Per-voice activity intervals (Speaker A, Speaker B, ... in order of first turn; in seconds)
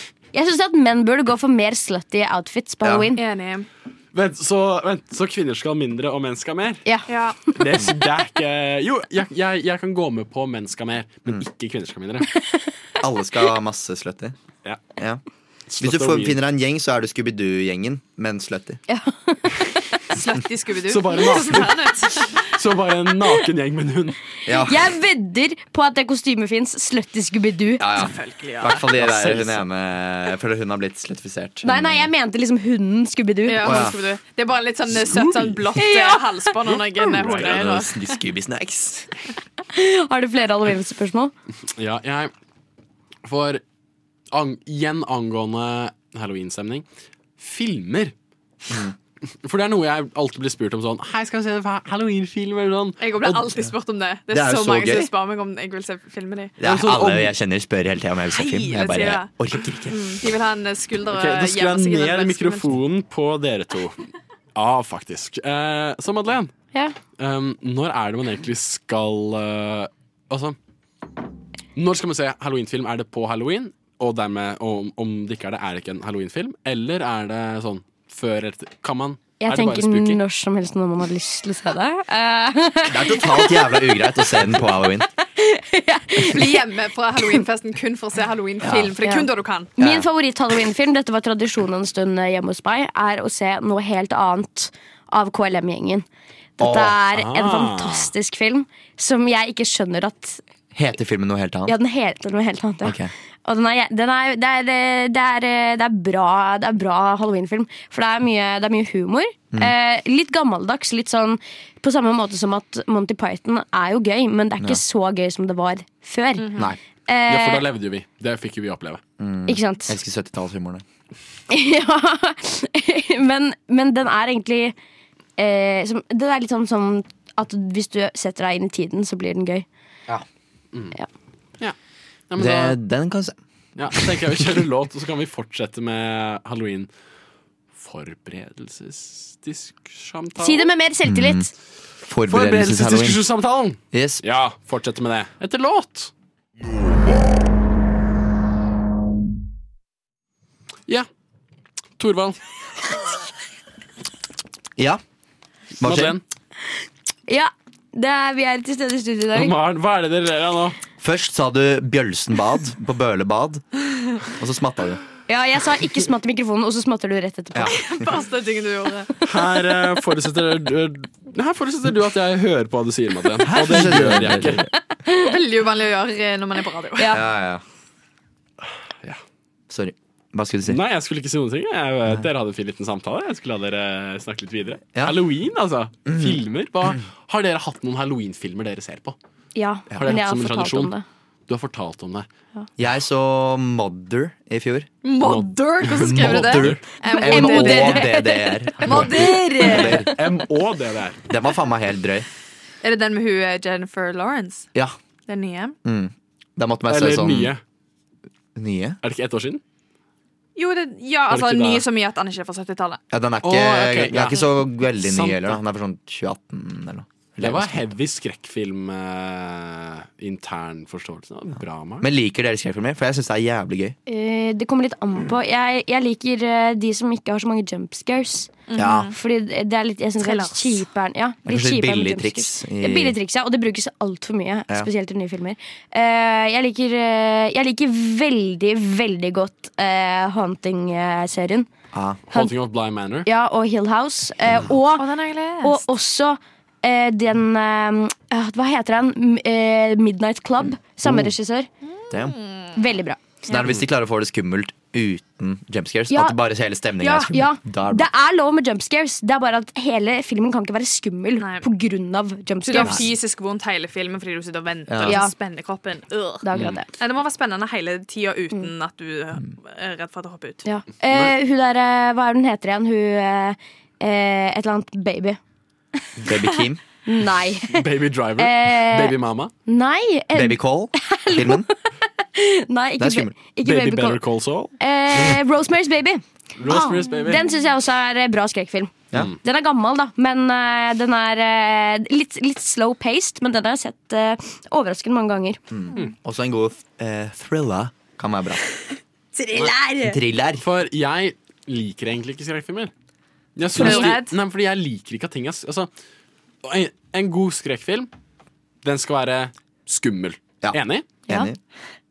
Speaker A: 0.3-3.2, 18.9-19.5, 24.6-27.9, 31.6-33.9, 35.8-36.2, 39.7-41.3, 79.4-83.9, 85.4-86.6, 89.0-96.0, 96.6-100.4, 101.7-116.5, 117.1-117.6, 119.5-120.0, 121.5-124.8, 125.4-129.7, 140.4-141.5, 157.3-159.5, 165.3-167.8, 177.0-177.2, 189.6-191.0, 197.0-198.6, 224.1-241.7, 243.2-245.1, 245.6-251.7, 252.8-253.2, 256.1-256.4, 257.0-263.1, 265.0-265.3, 266.4-266.9, 270.6-275.4, 277.1-277.9, 278.4-279.1, 279.7-281.7, 282.4-284.2, 284.8-295.6
Speaker B: 2.8-3.1, 13.0-14.3, 15.0-15.2, 15.8-18.8, 24.5-24.9, 27.8-32.1, 33.6-34.0, 35.1-35.4, 37.2-39.1, 48.7-49.0, 54.3-55.1, 56.6-60.2, 82.9-85.1, 88.6-88.9, 89.8-90.1, 96.6-97.0, 100.7-101.7, 102.8-103.1, 119.2-120.8, 132.4-133.4, 141.1-141.5, 142.0-143.2, 143.9-144.2, 155.8-156.2, 161.0-163.6, 164.2-165.0, 167.5-167.9, 173.4-174.7, 177.1-177.6, 179.7-180.8, 186.1-186.4, 192.8-194.9, 196.0-200.2, 201.3-202.3, 205.8-207.5, 208.6-209.0, 213.1-217.8, 222.0-223.9, 228.8-229.1, 231.5-233.2, 241.9-242.2, 251.0-251.3, 253.5-258.1, 262.8-263.0, 264.9-265.2, 276.2-276.8, 280.4-281.7, 283.0-283.3, 295.7-298.6, 299.6-300.7, 310.6-311.6
Speaker C: 3.1-3.7, 7.1-7.4, 20.1-22.4, 27.9-28.9, 33.5-38.0, 53.0-56.5, 58.3-59.3, 59.9-62.8, 86.2-89.7, 116.4-116.7, 167.6-169.1, 175.1-177.2, 195.0-198.2, 198.8-200.1, 202.8-204.7, 205.3-205.8, 210.6-213.0, 228.7-229.1, 230.2-230.8, 245.0-245.8, 251.9-252.8, 261.4-261.7, 262.6-266.4, 267.0-270.6, 299.4-300.2, 303.8-304.4
Speaker D: 4.1-6.8, 7.5-12.3, 15.7-16.4, 20.9-24.2, 28.9-29.6, 36.7-37.6, 41.8-42.3, 43.2-43.6, 44.3-46.9, 47.4-48.1, 49.4-53.4, 56.6-57.3, 61.1-64.0, 64.5-66.5, 67.2-70.6, 71.8-80.2, 97.1-98.1, 117.3-119.0, 132.3-132.8, 133.8-136.9, 137.8-140.7, 142.3-146.1, 152.0-152.4, 155.8-156.2, 159.3-160.8, 169.2-174.7, 180.7-189.2, 190.0-190.9, 191.5-192.3, 195.2-196.8, 198.9-201.2, 206.9-207.6, 209.0-209.6, 211.3-211.8, 213.4-215.6, 217.4-222.1, 242.3-243.3, 271.1-271.4, 277.7-279.5, 283.6-285.4, 286.6-287.4, 300.6-302.9, 303.6-305.9, 306.6-308.1, 308.8-311.1